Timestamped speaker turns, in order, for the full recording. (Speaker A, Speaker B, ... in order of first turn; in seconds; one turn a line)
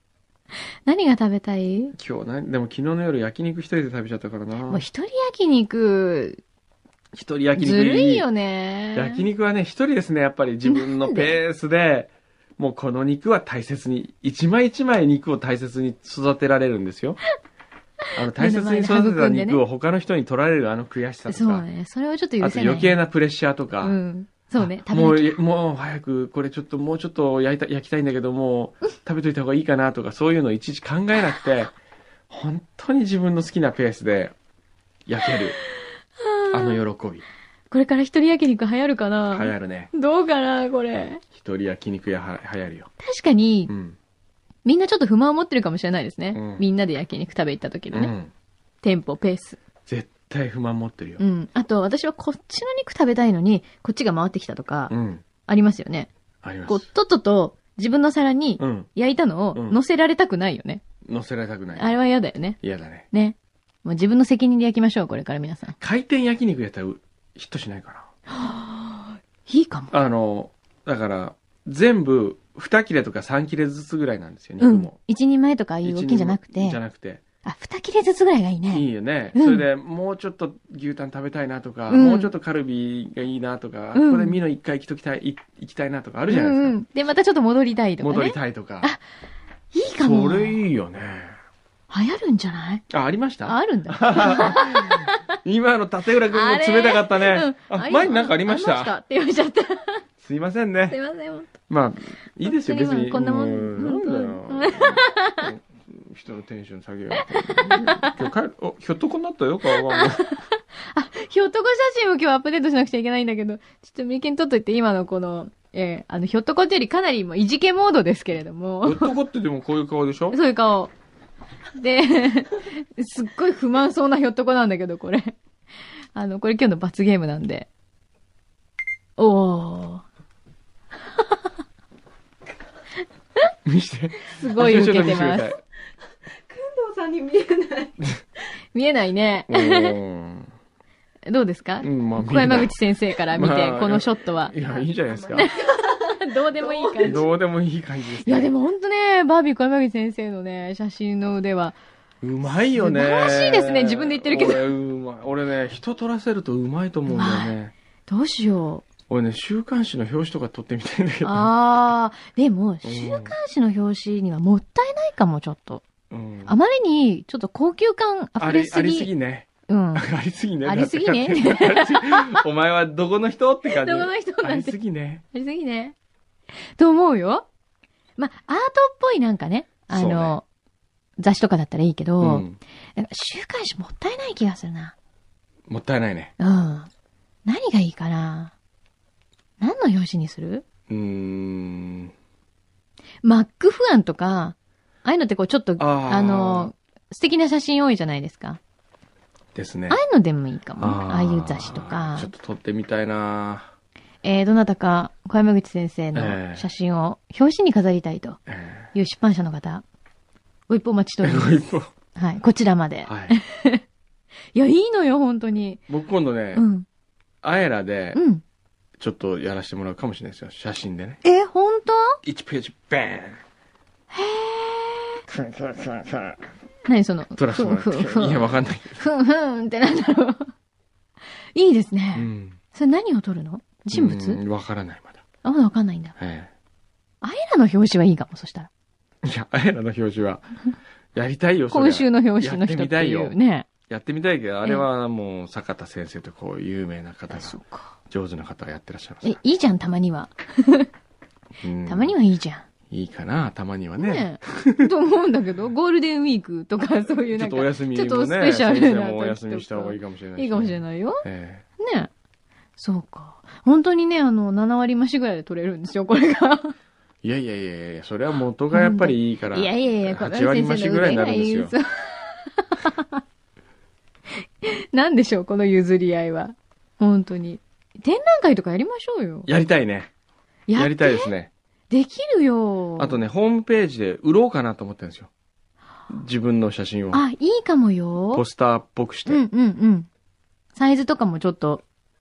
Speaker A: 0.8-1.9
Speaker B: 1.9-4.8
Speaker A: 4.7-6.4
Speaker B: 7.1-8.2
Speaker A: 7.5-9.2
Speaker B: 8.9-17.2
Speaker A: 10.6-11.3
Speaker B: 18.1-21.6
Speaker A: 18.3-19.6
Speaker A: 21.3-23.0
Speaker B: 22.4-23.9
Speaker A: 23.8-25.3
Speaker B: 24.6-31.7
Speaker B: 32.3-34.3
Speaker B: 35.1-35.6
Speaker A: 36.2-36.8
Speaker B: 36.5-37.2
Speaker A: 37.7-41.2
Speaker B: 39.3-39.9
Speaker B: 41.3-42.9
Speaker A: 43.0-43.7
Speaker B: 43.7-44.0
Speaker A: 44.6-48.1
Speaker B: 46.3-46.6
Speaker B: 47.9-48.3
Speaker A: 48.8-49.6
Speaker B: 49.9-51.2
Speaker A: 51.2-54.9
Speaker B: 54.9-55.2
Speaker A: 55.5-56.1
Speaker B: 56.4-56.9
Speaker A: 56.6-60.8
Speaker B: 58.6-58.9
Speaker B: 59.5-59.8
Speaker B: 61.0-62.0
Speaker A: 61.7-62.6
Speaker B: 62.6-63.0
Speaker A: 63.1-65.8
Speaker B: 65.8-68.1
Speaker A: 68.3-69.9
Speaker B: 69.9-75.0
Speaker A: 74.6-76.8
Speaker B: 75.8-77.2
Speaker A: 77.4-79.6
Speaker B: 78.7-86.8
Speaker A: 81.9-82.3
Speaker A: 83.9-84.4
Speaker A: 86.3-89.0
Speaker B: 88.0-88.9
Speaker A: 89.7-90.6
Speaker B: 90.0-91.4
Speaker A: 91.9-92.8
Speaker B: 92.9-98.9
Speaker A: 93.4-95.2
Speaker A: 96.3-100.0
Speaker B: 100.2-101.0
Speaker A: 100.9-101.5
Speaker B: 101.7-110.2
Speaker A: 102.4-105.5
Speaker A: 107.2-108.1
Speaker A: 109.7-119.2
Speaker B: 118.8-120.4
Speaker A: 120.3-120.9
Speaker A: 121.8-125.3
Speaker A: 126.1-127.7
Speaker A: 129.2-130.0
Speaker B: 133.6-135.6
Speaker A: 134.3-135.6
Speaker C: 136.4-138.0
Speaker A: 138.7-140.0
Speaker B: 139.5-140.5
Speaker A: 141.3-144.5
Speaker B: 141.8-142.7
Speaker B: 143.3-145.5
Speaker C: 145.3-147.2
Speaker A: 145.3-147.2
Speaker B: 147.0-148.5
Speaker A: 148.1-151.8
Speaker B: 152.2-157.7
Speaker A: 152.8-154.7
Speaker A: 157.1-157.6
Speaker A: 158.1-158.8
Speaker B: 159.1-161.5
Speaker A: 161.2-165.8
Speaker B: 162.8-163.3
Speaker B: 166.1-166.5
Speaker A: 166.5-169.1
Speaker B: 168.4-175.2
Speaker A: 169.7-170.1
Speaker A: 170.6-172.4
Speaker A: 173.7-174.8
Speaker A: 175.3-175.9
Speaker A: 176.7-177.5
Speaker A: 178.2-180.4
Speaker B: 179.9-180.4
Speaker A: 181.2-184.9
Speaker B: 182.2-182.6
Speaker B: 185.7-186.3
Speaker A: 186.4-186.9
Speaker A: 187.4-188.5
Speaker A: 189.6-190.6
Speaker B: 190.9-192.1
Speaker A: 193.2-198.6
Speaker B: 195.8-196.7
Speaker B: 199.5-200.0
Speaker A: 199.9-202.3
Speaker B: 200.8-203.7
Speaker A: 204.2-208.4
Speaker B: 206.1-206.7
Speaker B: 208.5-208.9
Speaker A: 208.9-209.8
Speaker A: 210.7-211.6
Speaker B: 211.2-211.9
Speaker A: 212.2-213.8
Speaker B: 213.1-213.3
Speaker A: 214.5-215.8
Speaker B: 215.9-216.6
Speaker A: 216.5-216.9
Speaker B: 217.4-218.2
Speaker A: 218.1-218.4
Speaker B: 219.0-221.2
Speaker A: 221.2-222.2
Speaker B: 222.2-223.4
Speaker A: 224.1-225.2
Speaker B: 225.3-226.4
Speaker A: 226.9-230.5
Speaker B: 227.4-229.0
Speaker A: 231.5-234.4
Speaker B: 232.1-232.6
Speaker B: 233.9-235.2
Speaker A: 235.4-236.1
Speaker B: 236.2-236.5
Speaker A: 237.2-238.7
Speaker B: 239.2-240.4
Speaker B: 241.1-243.3
Speaker A: 241.7-243.7
Speaker B: 243.9-249.3
Speaker A: 247.3-247.9
Speaker A: 249.2-250.9
Speaker B: 251.6-252.2
Speaker A: 251.8-252.6
Speaker B: 252.9-254.9
Speaker A: 254.0-261.2
Speaker B: 257.3-261.6
Speaker A: 261.8-262.1
Speaker A: 262.8-266.7
Speaker B: 267.2-271.7
Speaker A: 268.7-273.2
Speaker A: 274.6-279.5
Speaker B: 279.4-280.1
Speaker A: 280.7-281.3
Speaker B: 280.7-281.5
Speaker A: 281.9-283.2
Speaker B: 283.0-285.3
Speaker B: 286.1-287.2
Speaker A: 287.1-288.4
Speaker B: 288.3-289.4
Speaker A: 289.3-290.1
Speaker A: 290.7-291.8